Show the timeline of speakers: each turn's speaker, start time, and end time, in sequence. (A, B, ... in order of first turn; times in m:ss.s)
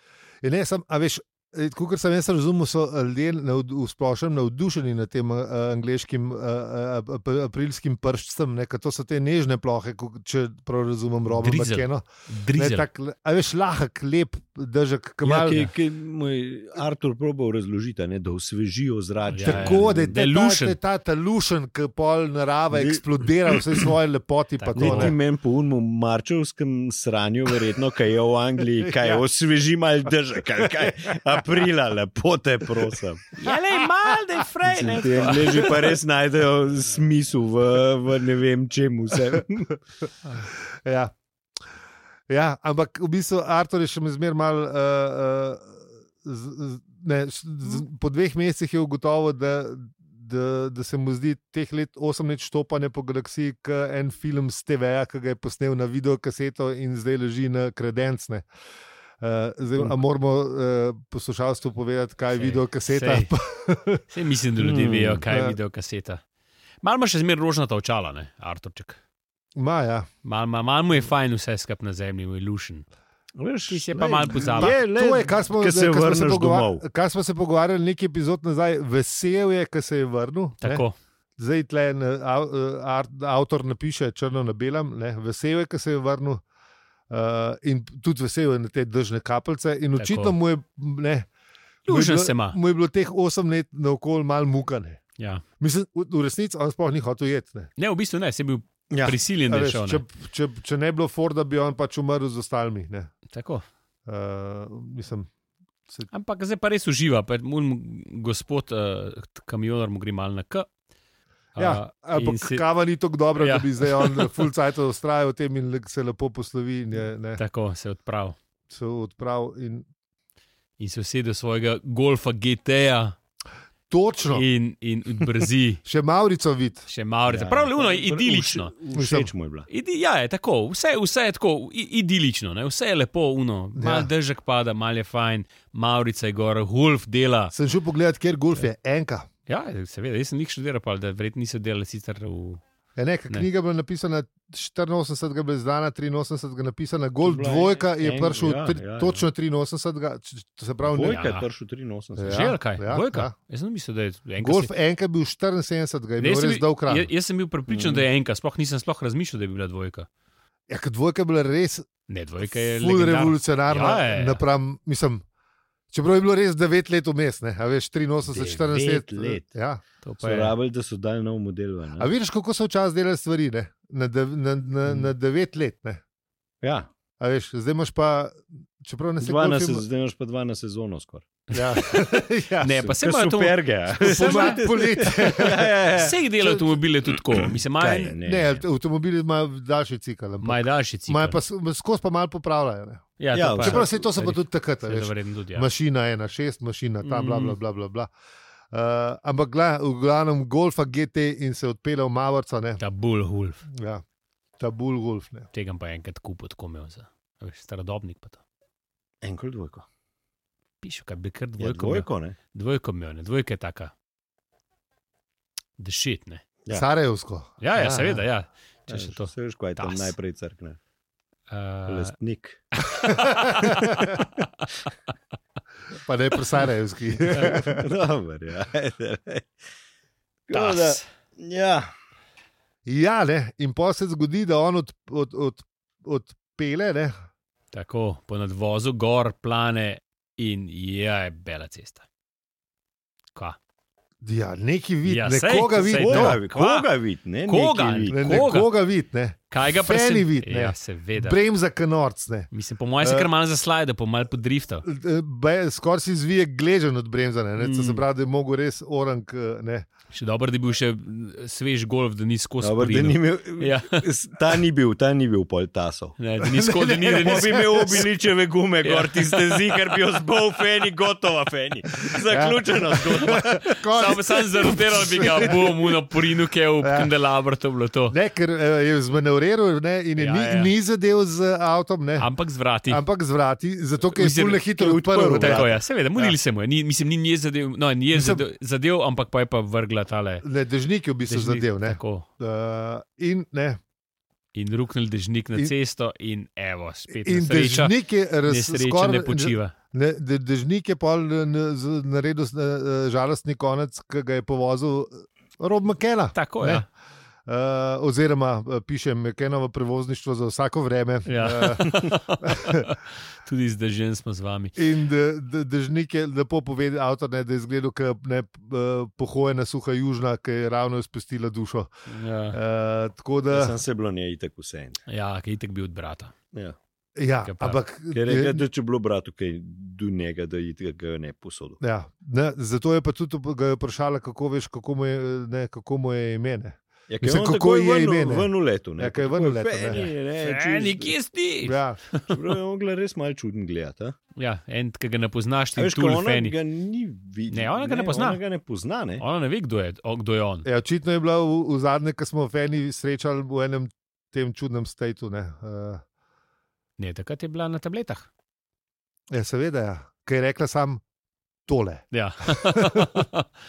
0:00.4-0:15.6 A
0:11.3-0:12.9 B
0:15.2-0:20.2 C
0:19.3-0:20.8 B
0:19.4-0:25.2 A
0:22.7-0:23.9 C
0:24.6-0:25.2 B
0:24.8-0:33.4 C
0:28.8-0:29.2 A
0:30.6-0:31.1 A
0:33.4-0:35.9 B
0:34.6-0:39.8 C
0:40.4-0:41.1 A
0:42.3-0:58.5 A
0:59.2-1:04.0 A
1:02.3-1:03.3 B
1:04.1-1:06.2 B
1:04.6-1:05.2 C
1:05.3-1:05.6 A
1:06.8-1:09.0 B
1:09.6-1:10.1 A
1:10.2-1:12.9 B
1:13.4-1:16.8 C
1:13.7-1:14.8 B
1:14.3-1:20.8 A
1:20.6-1:21.0 B
1:21.4-1:26.4 A
1:27.1-1:31.3 A
1:30.0-1:30.4 B
1:31.9-1:32.6 B
1:31.9-1:35.0 A
1:35.2-1:35.4 B
1:35.6-1:37.7 A
1:37.8-1:40.0 B
1:38.9-1:39.2 C
1:39.5-1:43.1 A
1:43.3-1:43.6 B
1:44.1-1:45.3 A
1:46.1-1:50.7 B
1:51.6-1:52.6 B
1:51.6-1:57.4 A
1:53.4-1:54.4 B
1:57.4-1:58.4 B
1:58.7-1:59.9 A
2:00.8-2:03.2 B
2:03.9-2:04.5 A
2:04.3-2:05.8 B
2:05.8-2:06.9 A
2:06.9-2:08.7 B
2:07.3-2:09.7 C
2:08.9-2:09.3 A
2:09.7-2:17.5 B
2:13.8-2:14.1 A
2:17.5-2:19.3 A
2:19.5-2:22.6 B
2:23.0-2:31.2 A
2:27.2-2:29.3 C
2:30.8-2:32.5 C
2:31.0-2:31.5 B
2:32.2-2:33.3 A
2:32.3-2:34.7 B
2:34.4-2:37.1 A
2:36.2-2:40.1 B
2:37.7-2:38.1 C
2:40.7-2:41.9 A
2:42.1-2:44.4 B
2:42.5-2:45.2 A
2:45.9-2:49.8 A
2:48.3-2:49.5 C
2:50.0-2:50.6 B
2:50.2-2:52.1 C
2:52.0-2:56.0 A
2:54.9-2:55.1 C
2:56.6-2:56.9 C
2:57.2-2:59.8 A
2:59.2-3:01.5 C
3:01.5-3:02.8 A
3:01.5-3:05.2 B
3:02.8-3:06.2 C
3:04.0-3:06.8 A
3:05.9-3:08.2 B
3:07.5-3:08.6 C
3:08.2-3:18.1 A
3:10.4-3:11.4 B
3:13.2-3:15.7 B
3:13.3-3:14.1 C
3:17.0-3:17.6 B
3:18.7-3:22.8 A
3:22.8-3:23.6 B
3:23.7-3:24.0 A
3:24.6-3:25.5 A
3:25.5-3:28.4 B
3:29.2-3:29.9 C
3:30.8-3:33.9 B
3:31.6-3:32.4 C
3:35.8-3:36.4 B
3:36.7-3:38.2 A
3:37.6-3:40.1 B
3:38.9-3:40.8 C
3:41.5-3:42.1 B
3:41.9-3:42.8 C
3:42.9-3:44.3 B
3:43.0-3:44.2 A
3:43.5-3:44.2 C
3:46.0-3:47.9 A
3:47.3-3:49.5 C
3:50.5-3:51.9 C
3:50.5-3:51.1 B
3:52.8-3:57.1 A
3:57.7-4:02.0 B
4:04.2-4:06.4 A
4:05.0-4:06.9 B
4:05.9-4:08.2 C
4:07.5-4:08.7 B
4:08.1-4:12.5 A
4:09.5-4:11.4 B
4:12.5-4:14.8 B
4:13.0-4:13.3 A
4:14.8-4:19.9 A
4:17.6-4:18.0 B
4:20.1-4:24.1 B
4:22.6-4:26.2 C
4:26.2-4:28.1 B
4:26.4-4:28.1 A
4:27.1-4:33.6 C
4:28.8-4:29.8 B
4:32.3-4:36.0 A
4:33.0-4:38.2 B
4:36.8-4:37.1 A
4:38.1-4:42.3 A
4:40.2-4:40.7 B
4:42.2-4:43.0 B
4:42.9-4:46.3 A
4:44.1-4:44.6 B
4:44.7-4:45.8 C
4:45.4-4:50.4 B
4:48.1-4:48.4 A
4:50.4-4:53.8 A
4:51.3-4:52.3 B
4:54.5-4:59.7 B
4:57.1-5:06.9 A
5:06.3-5:06.9 B
5:07.5-5:12.9 A
5:11.3-5:14.8 B
5:14.8-5:21.9 A
5:22.1-5:22.6 B
5:22.5-5:23.8 A
5:23.5-5:25.0 C
5:25.1-5:26.3 B
5:27.2-5:28.6 A
5:27.4-5:27.8 B
5:28.1-5:31.8 C
5:31.8-5:40.1 A
5:37.1-5:41.2 C
5:39.9-5:42.4 B
5:41.6-5:42.0 A
5:42.3-5:44.2 C
5:44.4-5:46.6 B
5:45.8-5:49.2 C
5:47.5-5:48.4 B
5:49.2-5:50.7 B
5:50.6-5:56.0 A
5:57.0-5:58.3 B
5:59.3-6:01.0 A
6:01.7-6:03.3 A
6:02.1-6:03.5 B